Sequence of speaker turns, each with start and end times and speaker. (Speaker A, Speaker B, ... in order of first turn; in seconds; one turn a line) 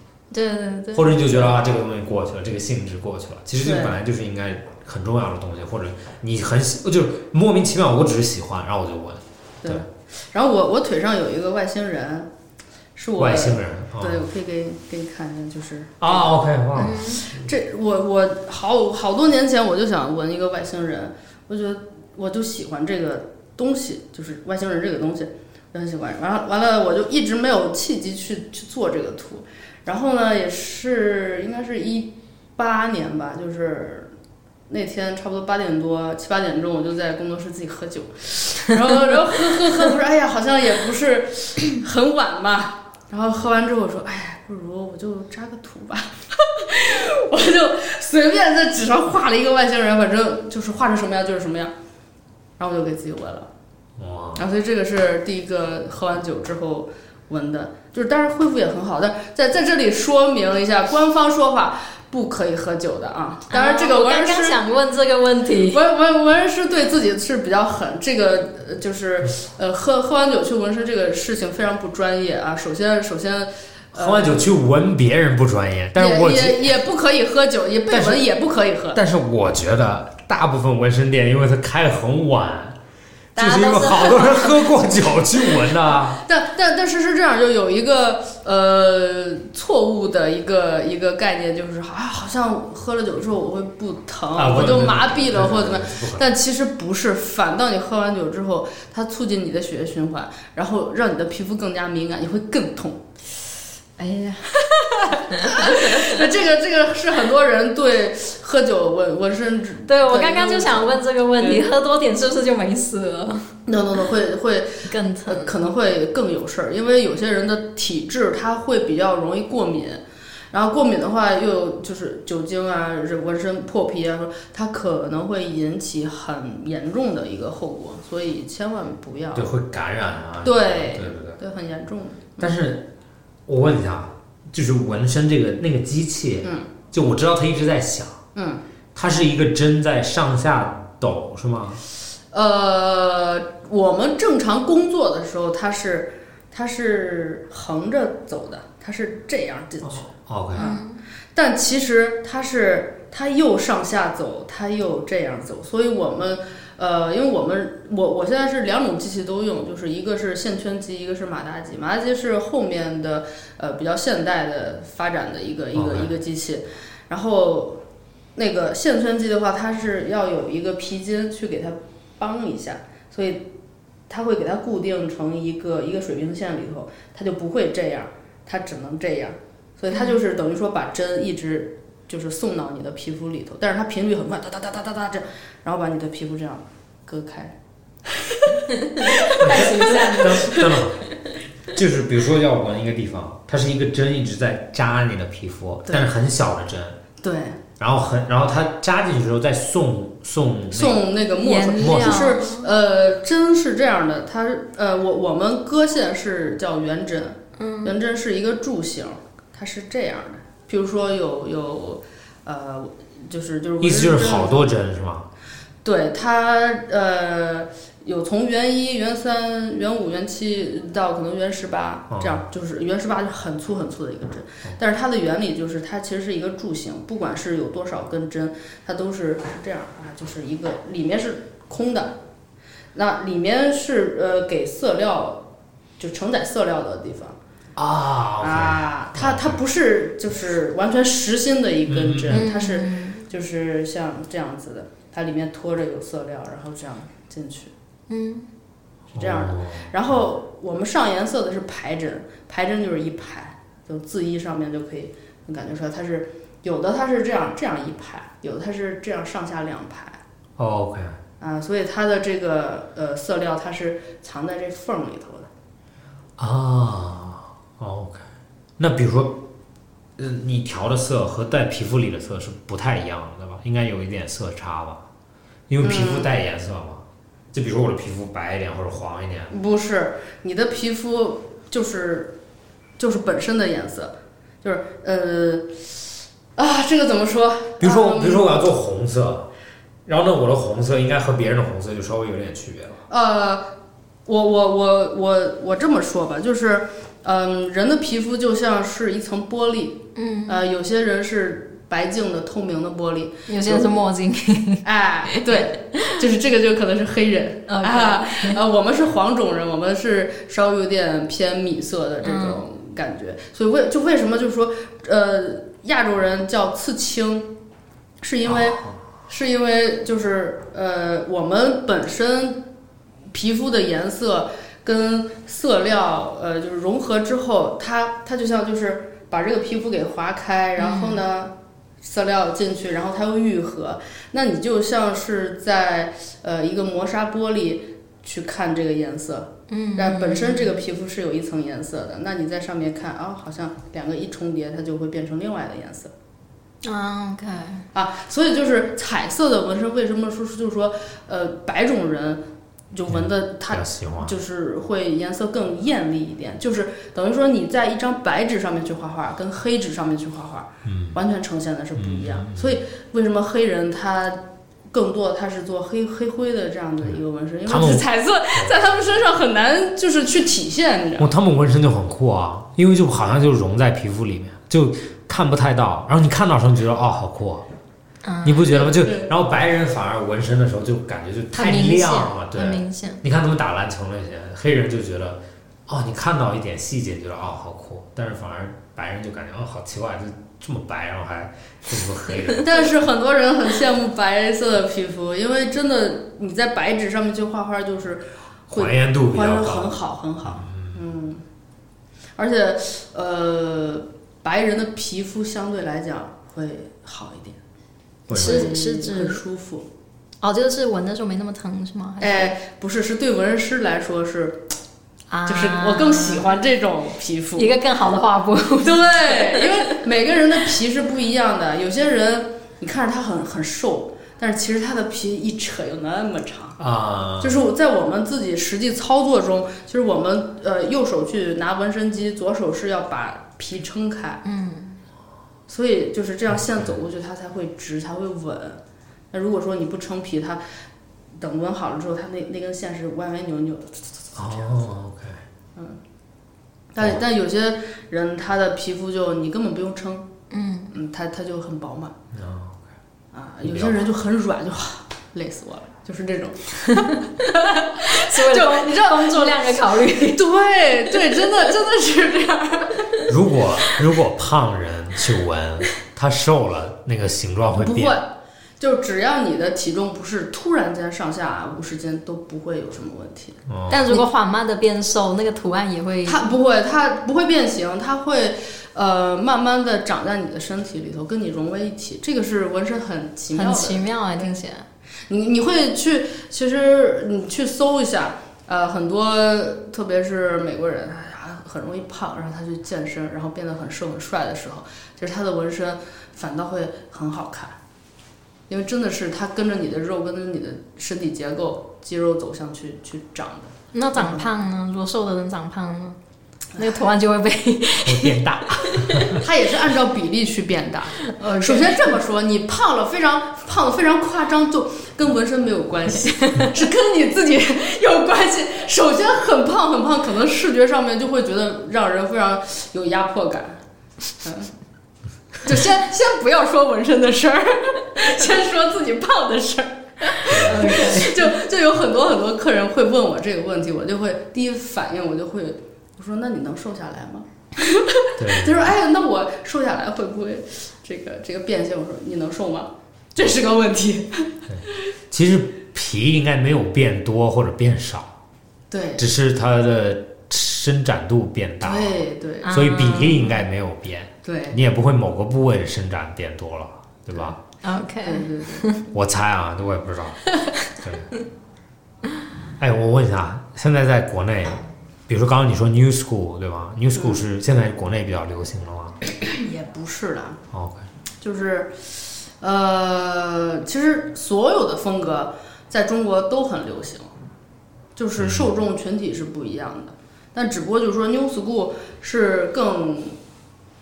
Speaker A: 0.3-1.4
Speaker B: 0.9-9.8
Speaker C: 3.6-4.0
Speaker C: 9.6-12.3
Speaker C: 12.9-34.1
Speaker B: 13.2-14.3
Speaker B: 16.0-17.5
Speaker A: 16.8-17.3
Speaker C: 34.7-51.7
Speaker C: 52.6-53.5
Speaker B: 54.0-54.4
Speaker C: 54.4-64.6
Speaker A: 63.5-65.8
Speaker C: 65.7-74.4
Speaker B: 73.9-76.8
Speaker C: 76.0-79.0
Speaker B: 77.9-78.2
Speaker B: 78.9-82.8
Speaker A: 83.3-84.6
Speaker B: 83.3-86.2
Speaker C: 86.1-103.0
Speaker B: 94.3-96.3
Speaker A: 104.0-104.5
Speaker C: 104.6-111.7
Speaker A: 105.3-106.1
Speaker A: 109.9-113.5
Speaker C: 113.7-129.5
Speaker A: 114.8-115.6
Speaker B: 129.3-131.4
Speaker C: 130.4-132.6
Speaker B: 132.4-132.9
Speaker B: 133.5-138.2
Speaker C: 136.4-136.7
Speaker C: 138.3-138.6
Speaker B: 138.9-141.8
Speaker C: 142.3-150.8
Speaker B: 149.8-150.7
Speaker A: 150.6-151.0
Speaker C: 151.3-167.8
Speaker B: 165.7-166.1
Speaker C: 168.3-173.5
Speaker C: 174.1-187.5
Speaker A: 179.9-180.2
Speaker C: 188.1-190.7
Speaker A: 188.7-190.6
Speaker B: 189.4-191.0
Speaker B: 191.7-197.0
Speaker C: 197.2-197.6
Speaker B: 197.8-201.0
Speaker C: 200.7-214.7
Speaker A: 201.4-202.7
Speaker B: 201.8-202.2
Speaker A: 207.6-207.9
Speaker B: 213.8-215.3
Speaker C: 215.8-232.2
Speaker B: 222.1-222.4
Speaker C: 232.9-235.4
Speaker C: 236.0-237.3
Speaker B: 237.8-239.6
Speaker C: 238.4-247.7
Speaker B: 241.8-242.5
Speaker A: 242.3-243.2
Speaker A: 248.1-248.5
Speaker B: 249.1-249.9
Speaker C: 249.2-260.2
Speaker B: 260.6-261.2
Speaker C: 261.4-265.5
Speaker B: 266.4-268.2
Speaker B: 268.8-269.4
Speaker B: 270.2-275.0
Speaker B: 275.7-279.5
Speaker C: 275.8-276.3
Speaker C: 279.5-282.3
Speaker C: 283.0-285.9
Speaker C: 286.6-288.6
Speaker B: 287.8-289.5
Speaker B: 290.1-293.0
Speaker C: 293.1-293.7
Speaker C: 294.2-304.0
Speaker A: 300.1-300.6
Speaker A: 303.5-305.7
Speaker C: 304.8-317.6
Speaker A: 307.7-308.6
Speaker A: 312.2-312.6
Speaker C: 318.2-322.6
Speaker B: 318.4-319.0
Speaker C: 323.3-346.1
Speaker A: 330.8-331.2
Speaker A: 339.7-340.7
Speaker A: 346.8-347.8
Speaker C: 347.9-352.4
Speaker C: 352.9-371.3
Speaker B: 353.1-354.3
Speaker B: 360.9-361.2
Speaker B: 362.0-362.8
Speaker B: 367.1-368.9
Speaker B: 371.2-377.6
Speaker A: 378.2-378.7
Speaker B: 378.4-392.9
Speaker C: 378.7-379.3
Speaker A: 381.5-383.2
Speaker C: 392.6-401.4
Speaker B: 398.7-401.0
Speaker C: 402.4-407.6
Speaker A: 408.3-409.4
Speaker B: 408.3-408.7
Speaker C: 408.3-409.9
Speaker A: 410.4-412.5
Speaker C: 412.2-414.7
Speaker A: 415.3-416.4
Speaker C: 415.4-417.7
Speaker A: 417.6-420.0
Speaker C: 418.8-426.8
Speaker B: 426.8-427.6
Speaker C: 427.4-434.4
Speaker A: 434.4-435.0
Speaker C: 435.7-438.8
Speaker C: 439.3-440.6
Speaker C: 441.4-444.5
Speaker B: 444.4-445.4
Speaker C: 446.9-450.3
Speaker A: 450.5-450.9
Speaker C: 450.9-452.1
Speaker B: 452.3-452.8
Speaker C: 453.3-459.6
Speaker B: 453.6-454.0
Speaker A: 456.9-460.4
Speaker C: 460.3-463.3
Speaker B: 463.3-468.2
Speaker C: 467.8-474.2
Speaker B: 473.7-474.1
Speaker A: 473.9-476.5
Speaker C: 476.2-484.0
Speaker A: 483.5-484.9
Speaker C: 485.3-497.7
Speaker C: 498.7-504.5
Speaker A: 503.9-506.2
Speaker A: 506.7-509.4
Speaker B: 508.0-509.4
Speaker C: 509.3-523.8
Speaker A: 511.3-512.1
Speaker A: 516.4-516.7
Speaker C: 524.4-524.7
Speaker C: 525.6-544.5
Speaker B: 530.5-531.1
Speaker A: 530.5-531.5
Speaker B: 538.4-538.9
Speaker B: 544.7-548.3
Speaker C: 548.9-549.2
Speaker B: 549.2-557.6
Speaker C: 551.8-553.5
Speaker A: 552.6-553.6
Speaker C: 554.4-554.8
Speaker A: 557.8-559.0
Speaker C: 558.2-558.8
Speaker B: 559.1-560.4
Speaker B: 560.9-561.3
Speaker B: 562.8-569.2
Speaker C: 567.1-567.4
Speaker C: 569.4-570.6
Speaker B: 570.7-571.0
Speaker C: 571.4-577.3
Speaker C: 578.1-583.4
Speaker B: 578.4-578.7